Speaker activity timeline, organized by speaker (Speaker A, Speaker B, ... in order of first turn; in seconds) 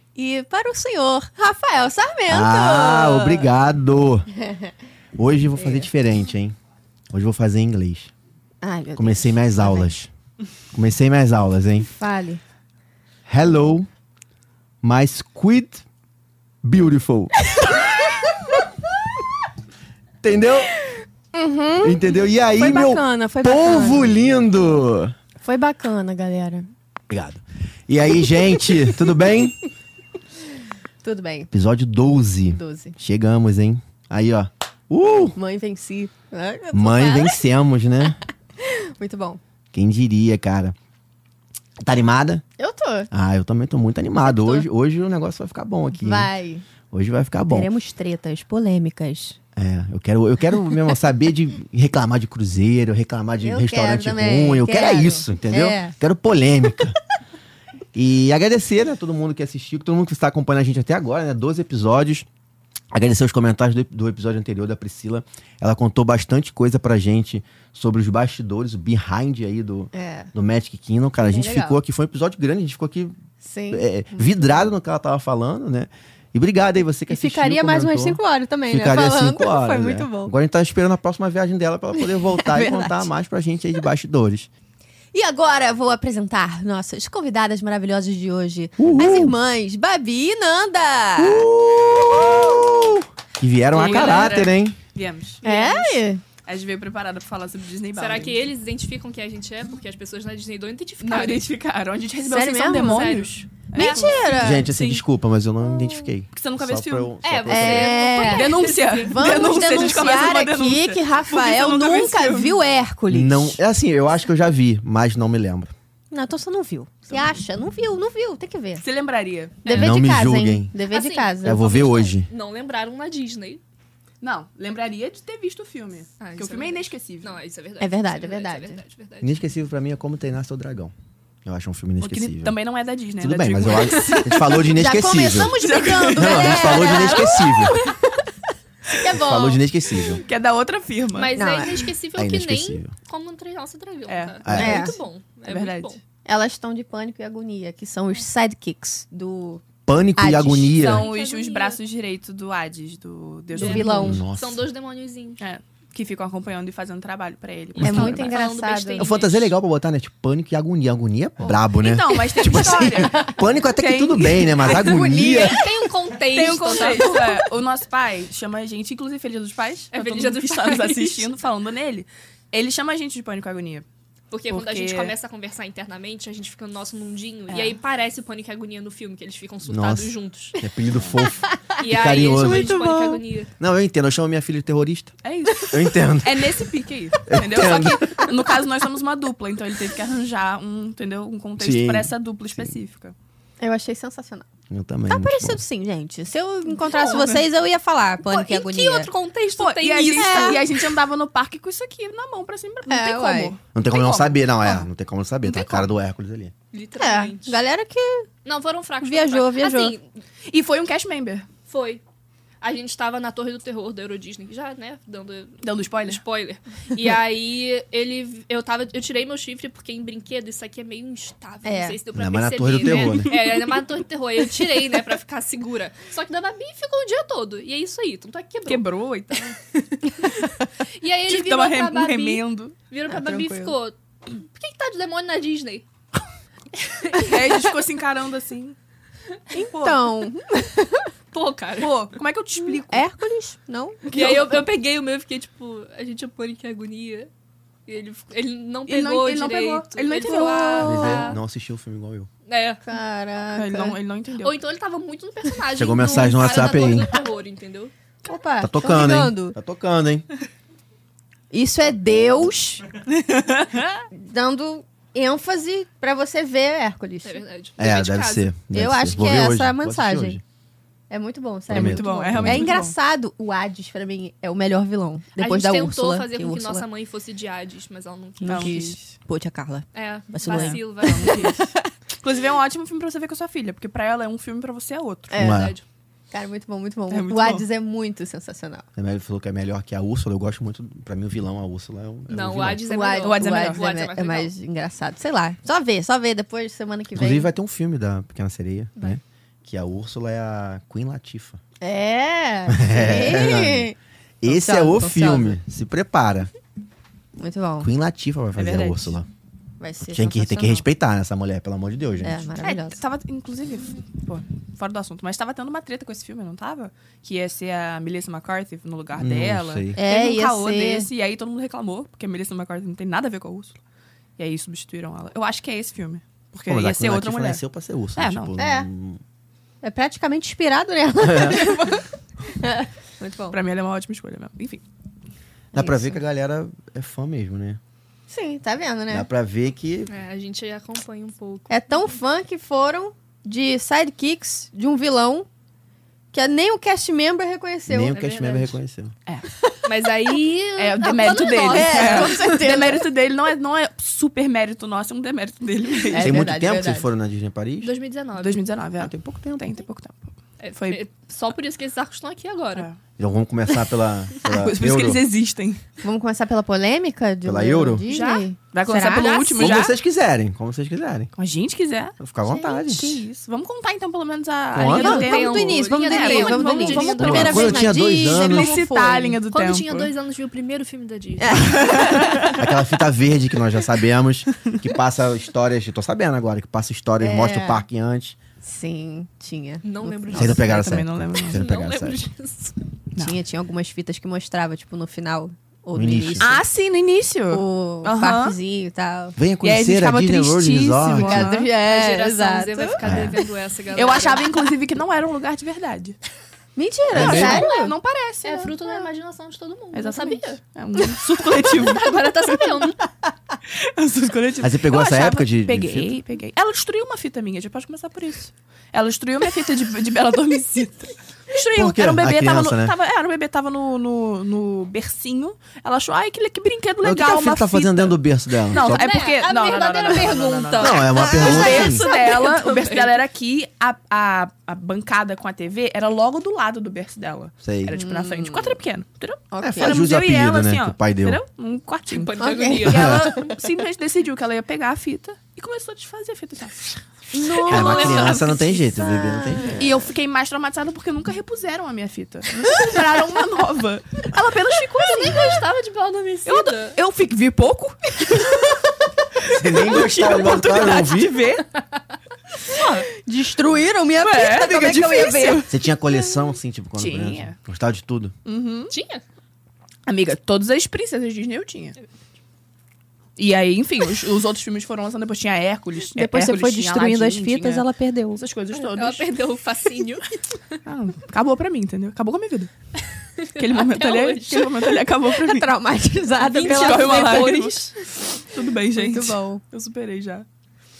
Speaker A: 0.1-3.5, 4.4-4.7, 5.6-5.9, 8.6-10.0, 11.8-12.4, 17.4-17.9, 20.8-22.0, 22.6-24.2, 25.4-26.7, 31.0-31.5, 32.5-33.0, 35.4-37.4, 38.6-39.4, 42.6-43.1, 44.2-44.6, 46.0-46.6, 47.5-49.4, 53.4-55.9, 69.9-70.3, 71.2-71.8, 73.4-74.4, 77.1-80.3, 81.9-83.1, 85.1-91.5, 95.4-96.2, 102.2-103.1, 103.7-104.7, 105.8-106.1, 107.5-113.6, 116.1-118.8, 119.6-121.7, 127.8-128.8, 134.0-138.2, 138.9-140.2, 141.3-141.9, 144.5-144.9, 146.2-149.6, 150.2-150.8, 153.5-154.2, 157.8-159.1, 162.9-163.4, 164.7-165.7, 181.2-181.8, 182.4-183.2, 193.6-194.5, 195.1-199.1, 200.1-200.6, 202.9-203.5, 207.0-208.3, 209.0-209.9, 221.6-222.0, 233.1-233.7, 239.5-241.1, 242.9-244.0, 252.8-253.9, 258.2-259.6, 261.5-262.8, 264.1-267.4, 268.7-270.4, 271.1-276.8, 278.4-281.9, 285.3-285.7, 286.3-288.8, 292.8-297.5, 301.8-305.6, 307.4-307.9, 309.8-310.8, 312.2-313.0, 319.9-321.1, 328.6-328.9, 329.8-333.6, 335.7-336.2, 338.3-339.3, 341.7-345.5, 346.3-348.2, 349.6-349.9, 351.6-353.1, 356.1-357.1, 366.0-369.5, 372.5-373.1, 374.9-379.4, 381.4-382.6, 387.2-387.8, 388.6-390.6, 393.1-396.6, 397.5-399.4, 401.1-403.0, 406.8-407.9, 431.2-432.1, 437.9-438.8, 439.5-440.0, 442.4-443.1, 447.3-449.8, 463.2-465.7, 476.1-478.4, 485.3-487.8, 488.9-489.6
Speaker B: 2.3-4.3, 5.2-6.5, 7.1-8.1, 8.9-10.1, 10.7-11.9, 13.3-13.9, 14.8-15.8, 16.6-17.8, 20.2-20.7, 21.8-25.1, 27.1-29.6, 31.5-35.4, 36.7-38.2, 39.7-40.7, 41.8-42.4, 43.1-46.3, 46.9-47.7, 49.5-57.0, 57.9-62.2, 62.9-73.2, 73.7-84.5, 88.8-89.3, 91.2-94.8, 104.4-108.1, 113.1-115.7, 119.7-120.7, 121.4-122.3, 129.2-130.9, 131.4-132.6, 133.2-135.5, 136.1-137.8, 139.1-140.2, 142.2-142.9, 144.4-144.9, 149.8-151.1, 153.9-154.6, 157.8-158.3, 159.0-165.7, 179.7-182.8, 183.6-186.6, 187.2-188.2, 191.6-192.7, 194.7-195.6, 203.7-206.5, 222.1-223.3, 250.8-252.3, 255.7-257.1, 258.6-260.2, 267.8-270.4, 271.7-272.8, 285.4-285.8, 288.9-292.8, 297.1-301.6, 302.7-306.5, 307.8-309.3, 310.1-312.4, 319.1-320.0, 326.6-329.2, 331.2-331.7, 335.7-337.8, 339.1-340.1, 347.9-349.1, 356.2-357.9, 363.2-365.2, 367.4-368.0, 369.6-371.3, 372.2-373.2, 374.7-375.2, 377.1-378.8, 382.4-388.4, 390.3-392.3, 395.9-396.5, 399.4-401.5, 403.0-403.4, 407.1-407.7, 414.6-416.1, 421.7-422.9, 427.0-429.1, 430.8-432.1, 437.6-438.0, 439.6-441.4, 442.8-443.2, 447.6-449.8, 459.5-461.6, 465.7-468.3
Speaker C: 93.7-98.4, 101.0-105.0, 106.3-107.1, 108.2-112.6, 118.8-119.8, 124.2-127.3, 132.0-134.6, 135.3-137.4, 140.2-141.3, 144.1-144.8, 145.4-146.0, 150.7-154.2, 155.4-158.3, 161.7-164.9, 166.3-173.8, 174.5-175.1, 177.5-177.8, 180.9-181.3, 185.2-193.1, 196.9-197.4, 199.6-204.2, 205.4-205.9, 210.4-211.5, 215.6-216.2, 222.8-223.8, 228.7-229.6, 231.3-232.7, 237.2-238.8, 239.6-240.0, 241.8-243.0, 244.1-244.6, 248.9-251.2, 253.5-254.5, 263.1-264.0, 271.7-272.9, 278.4-279.1, 280.4-285.3, 287.1-287.6, 293.2-293.8, 308.6-309.1, 312.6-323.8, 324.4-327.6, 328.1-328.5, 333.5-334.8, 350.8-356.4, 358.4-361.0, 364.4-365.8, 368.7-369.9, 371.4-380.1, 381.5-382.6, 390.5-391.6, 396.4-398.6, 399.6-401.7, 403.0-403.4, 403.9-406.2, 407.1-409.1, 409.9-412.3, 413.6-447.0, 449.7-455.6, 456.4-458.8, 459.6-461.7, 464.2-465.7, 467.0-467.5, 468.4-468.9, 470.1-471.9, 473.4-477.8, 478.4-479.3, 480.9-482.7, 483.6-485.7, 486.4-487.9, 488.4-490.4
Speaker D: 98.0-101.4, 102.7-104.1, 107.2-110.2, 120.9-123.6, 126.2-129.3, 141.1-146.0, 150.9-151.8, 153.6-155.4, 157.7-159.5, 164.6-167.5, 169.9-171.3, 174.3-180.6, 181.8-183.5, 198.2-200.8, 206.7-207.6, 208.4-210.0, 211.7-212.0, 212.6-235.8, 236.8-237.7, 241.3-242.0, 244.1-247.3, 247.9-251.4, 252.5-252.8, 254.4-257.9, 267.2-268.5, 275.4-278.9, 279.9-281.5, 285.4-285.8, 292.3-294.5, 340.1-341.7, 348.1-348.7, 349.8-352.6, 357.8-358.6, 360.6-362.9, 368.1-368.5, 369.2-369.9, 374.8-377.9, 379.5-381.9, 389.8-390.6, 391.4-392.8, 401.8-404.5, 408.4-410.6, 411.7-413.1, 428.7-433.2, 442.1-443.6, 447.5-448.9, 455.0-457.0, 462.7-463.1, 468.9-469.2, 478.7-480.7, 483.4-485.0, 486.4-488.2